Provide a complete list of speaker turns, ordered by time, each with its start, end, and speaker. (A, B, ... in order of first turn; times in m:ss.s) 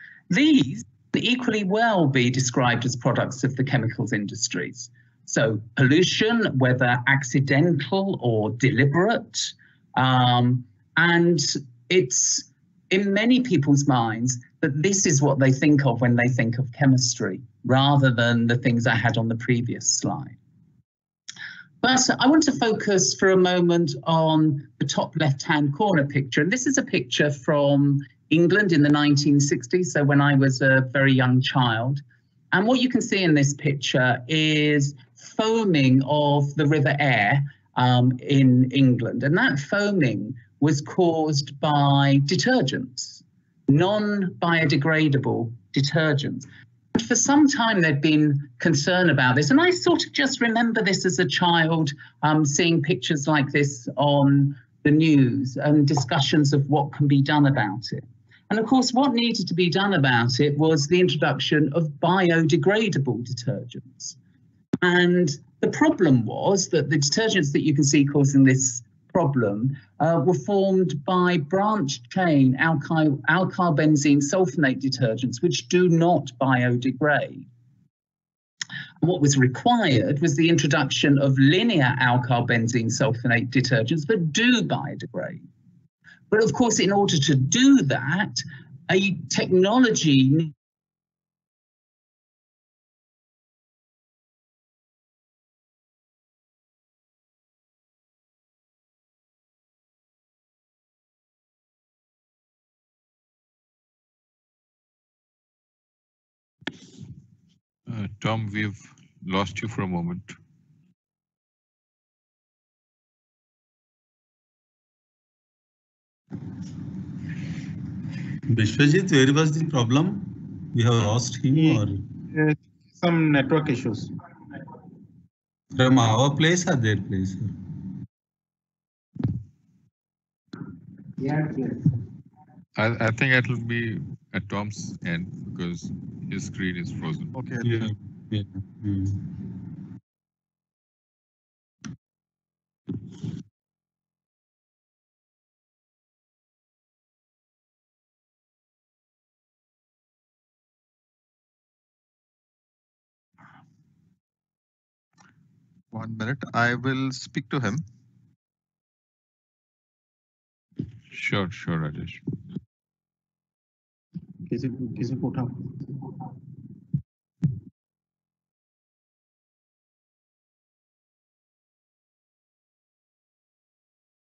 0:00.3-0:20.4 A
0:21.8-1:04.2 A
1:04.8-1:17.5 A
1:19.0-1:25.4 A
1:26.3-1:30.5 A
1:47.9-1:50.4 B
1:58.5-2:02.0 C
2:01.5-2:01.8 D
2:02.3-2:04.1 D
2:05.7-2:07.5 C
2:11.2-2:11.6 D
2:12.8-2:17.3 B
2:17.4-2:17.6 E
2:17.6-2:19.1 C
2:35.9-2:37.8 E
2:41.1-2:42.2 B
2:44.5-2:45.5 D